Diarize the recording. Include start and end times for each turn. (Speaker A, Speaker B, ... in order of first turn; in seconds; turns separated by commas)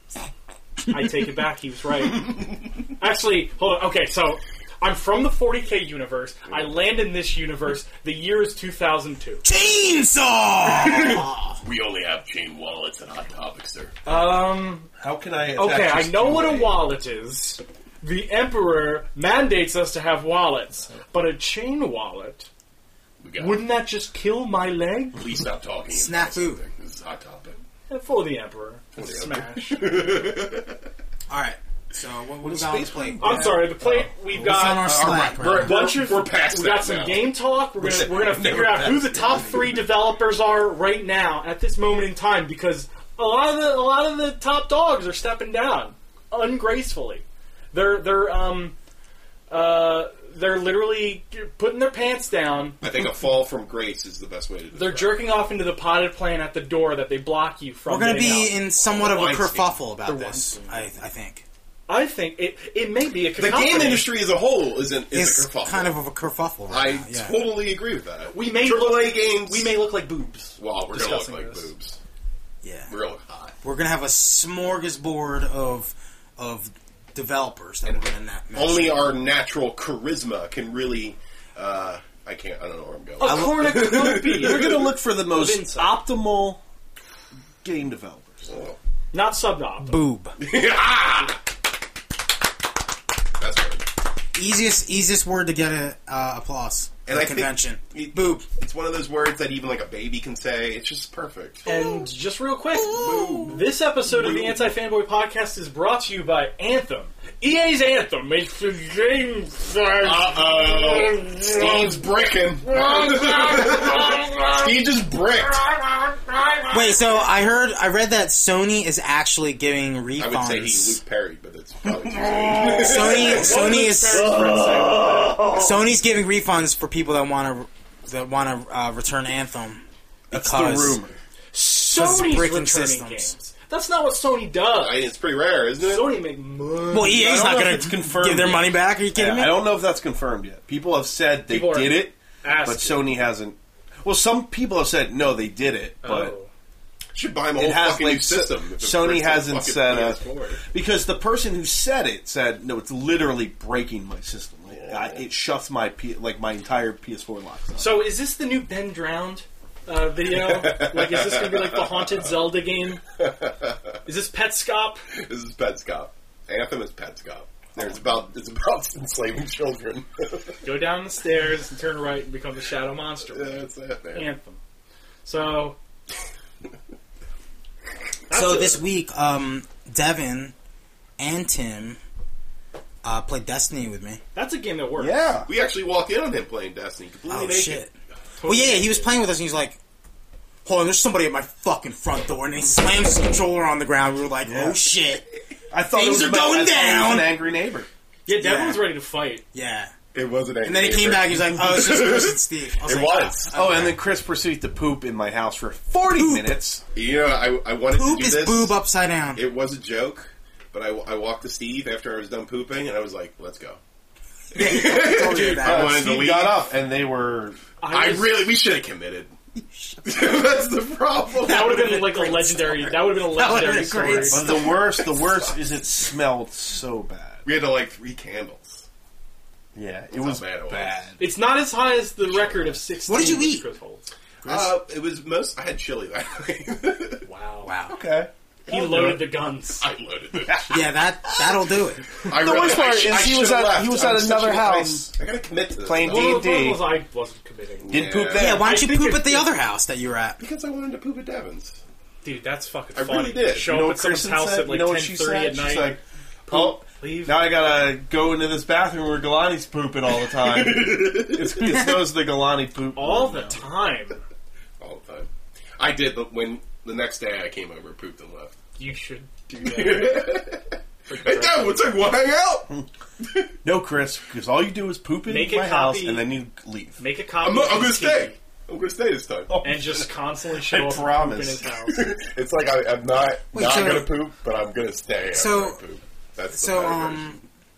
Speaker A: 0.9-9.4, Speaker B: 2.2-2.6, Speaker B: 6.5-6.7, Speaker C: 9.4-11.6, Speaker B: 10.7-13.9, Speaker A: 14.0-14.9, Speaker D: 15.0-16.9, Speaker A: 15.6-22.5, Speaker B: 23.2-23.6, Speaker A: 23.4-25.2, Speaker B: 25.1-27.6, Speaker C: 25.9-26.6, Speaker A: 27.9-30.0, Speaker B: 28.9-30.8, Speaker C: 31.3-33.7, Speaker D: 32.4-34.6, Speaker A: 33.2-48.8, Speaker C: 34.3-35.9, Speaker B: 34.6-37.3, Speaker D: 37.8-39.8, Speaker A: 49.5-52.8, Speaker B: 52.8-55.3, Speaker A: 54.7-58.5, Speaker C: 57.9-61.4, Speaker B: 58.8-59.8, Speaker A: 60.0-60.9, Speaker A: 61.9-64.1, Speaker B: 63.4-66.0, Speaker C: 65.1-67.4, Speaker B: 66.7-69.7, Speaker A: 68.3-71.7, Speaker B: 70.6-72.0, Speaker C: 72.6-72.9, Speaker B: 72.9-73.5, Speaker C: 73.6-79.2, Speaker B: 78.5-84.9, Speaker A: 83.2-86.0, Speaker C: 83.2-83.7, Speaker D: 83.7-86.6, Speaker D: 87.6-88.5, Speaker B: 88.5-88.8, Speaker A: 89.1-90.0, Speaker C: 89.8-90.3, Speaker B: 90.4-91.4, Speaker B: 93.4-93.8, Speaker C: 94.3-98.4, Speaker B: 97.0-101.7, Speaker A: 101.7-111.8, Speaker B: 102.9-103.6, Speaker B: 110.0-117.1, Speaker C: 116.7-121.0, Speaker B: 120.2-123.7, Speaker D: 121.8-123.2, Speaker C: 122.5-124.4, Speaker A: 123.0-125.4, Speaker D: 124.1-125.7, Speaker C: 125.5-131.0, Speaker D: 130.3-131.2, Speaker A: 131.5-135.0, Speaker C: 131.9-133.4, Speaker B: 134.7-136.2, Speaker A: 135.8-137.3, Speaker C: 136.9-139.6, Speaker D: 137.0-146.3, Speaker A: 141.5-143.1, Speaker A: 146.0-146.5, Speaker B: 147.1-150.6, Speaker D: 147.6-158.0, Speaker B: 154.7-155.2, Speaker A: 157.8-163.0, Speaker B: 160.3-162.3, Speaker B: 163.2-163.9, Speaker A: 164.0-165.0, Speaker B: 165.1-170.6, Speaker A: 170.6-174.6, Speaker B: 173.3-174.3, Speaker A: 175.2-175.8, Speaker A: 178.3-178.8, Speaker C: 178.3-180.5, Speaker C: 181.2-182.0, Speaker C: 183.0-184.2, Speaker A: 184.3-185.2, Speaker D: 185.0-185.5, Speaker B: 185.5-187.8, Speaker C: 187.3-187.9, Speaker A: 188.4-189.1, Speaker C: 188.4-189.8, Speaker C: 190.6-195.3, Speaker D: 194.4-194.8, Speaker D: 195.7-197.9, Speaker C: 195.9-197.3, Speaker A: 198.2-199.4, Speaker C: 198.3-198.9, Speaker C: 199.5-199.9, Speaker B: 200.1-203.5, Speaker C: 200.6-204.0, Speaker D: 203.5-206.8, Speaker C: 206.1-206.5, Speaker B: 206.9-208.8, Speaker C: 207.9-209.4, Speaker B: 209.3-213.8, Speaker C: 214.5-216.1, Speaker B: 214.5-216.6, Speaker D: 215.4-217.6, Speaker A: 217.8-218.4, Speaker B: 217.9-219.3, Speaker C: 219.6-220.1, Speaker B: 220.0-222.1, Speaker A: 221.4-224.5, Speaker C: 221.4-224.7, Speaker D: 224.0-227.4, Speaker B: 224.5-225.6, Speaker B: 227.4-228.8, Speaker D: 229.7-231.2, Speaker B: 230.1-231.1, Speaker A: 231.2-234.1, Speaker C: 233.1-233.6, Speaker B: 234.4-237.2, Speaker A: 237.2-237.7, Speaker C: 237.6-238.0, Speaker D: 237.9-239.3, Speaker A: 238.7-239.8, Speaker B: 238.9-239.1, Speaker B: 239.8-240.8, Speaker D: 240.3-240.8, Speaker C: 240.7-242.1, Speaker D: 242.2-245.1, Speaker B: 242.2-246.4, Speaker D: 245.8-246.9, Speaker A: 246.0-249.5, Speaker B: 247.8-248.7, Speaker D: 247.9-248.6, Speaker C: 248.3-250.4, Speaker B: 250.4-251.8, Speaker A: 252.2-257.4, Speaker B: 252.9-253.7, Speaker D: 253.6-263.6, Speaker B: 260.3-261.8, Speaker A: 262.9-264.2, Speaker B: 264.8-268.5, Speaker A: 268.8-270.3, Speaker B: 269.6-273.5, Speaker A: 271.1-271.9, Speaker D: 273.6-277.0, Speaker A: 275.2-276.3, Speaker A: 277.0-278.4, Speaker B: 277.4-279.6, Speaker D: 279.5-280.0, Speaker A: 279.6-282.1, Speaker D: 280.6-281.6, Speaker B: 281.9-287.3, Speaker C: 283.5-284.1, Speaker C: 285.3-285.8, Speaker C: 286.5-287.4